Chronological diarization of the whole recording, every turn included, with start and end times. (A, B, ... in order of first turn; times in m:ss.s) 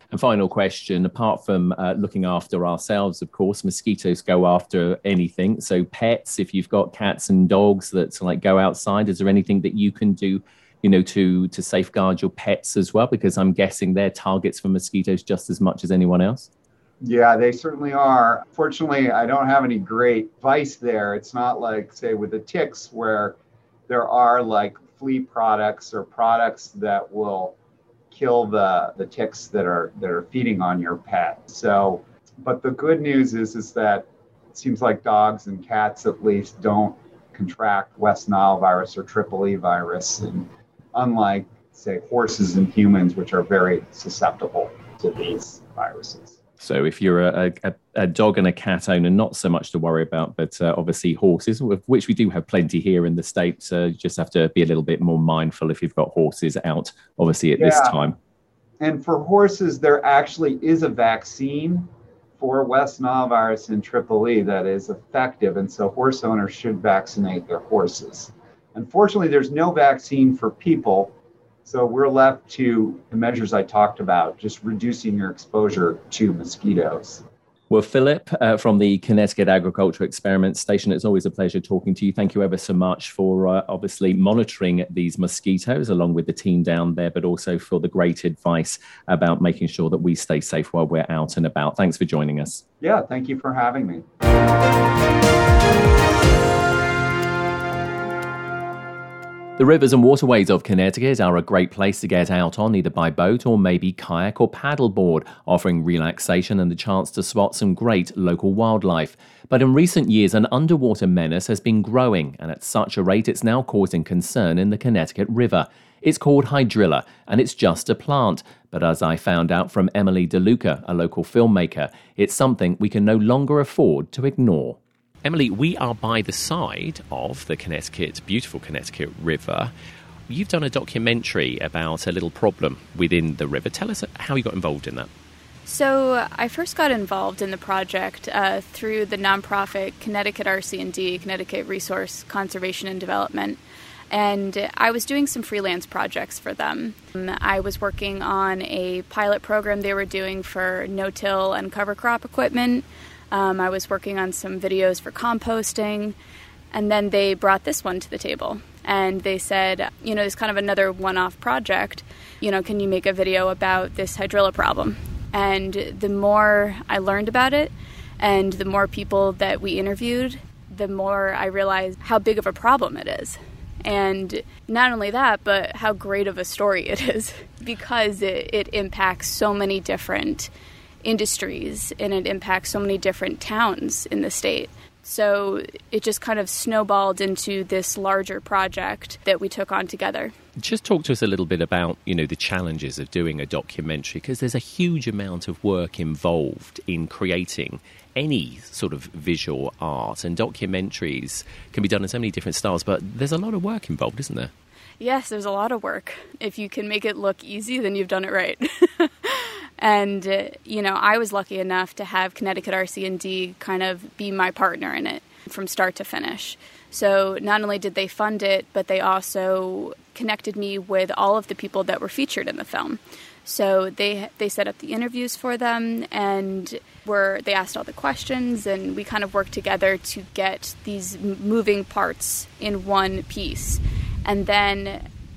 0:00.1-0:16.5 A
0:17.0-0:23.4 B
0:23.9-0:27.6 B
0:28.1-0:46.4 B
0:46.6-0:58.2 A
0:57.6-0:58.0 B
0:58.8-1:11.1 B
1:11.6-1:17.2 B
1:17.7-1:32.6 A
1:32.8-1:34.0 B
1:39.6-2:09.7 A
2:10.3-2:15.1 A
2:15.6-2:23.6 C
2:24.1-2:36.2 C
2:36.7-3:00.5 C
3:01.0-3:10.3 C
3:10.6-3:24.5 A
3:25.0-3:55.0 C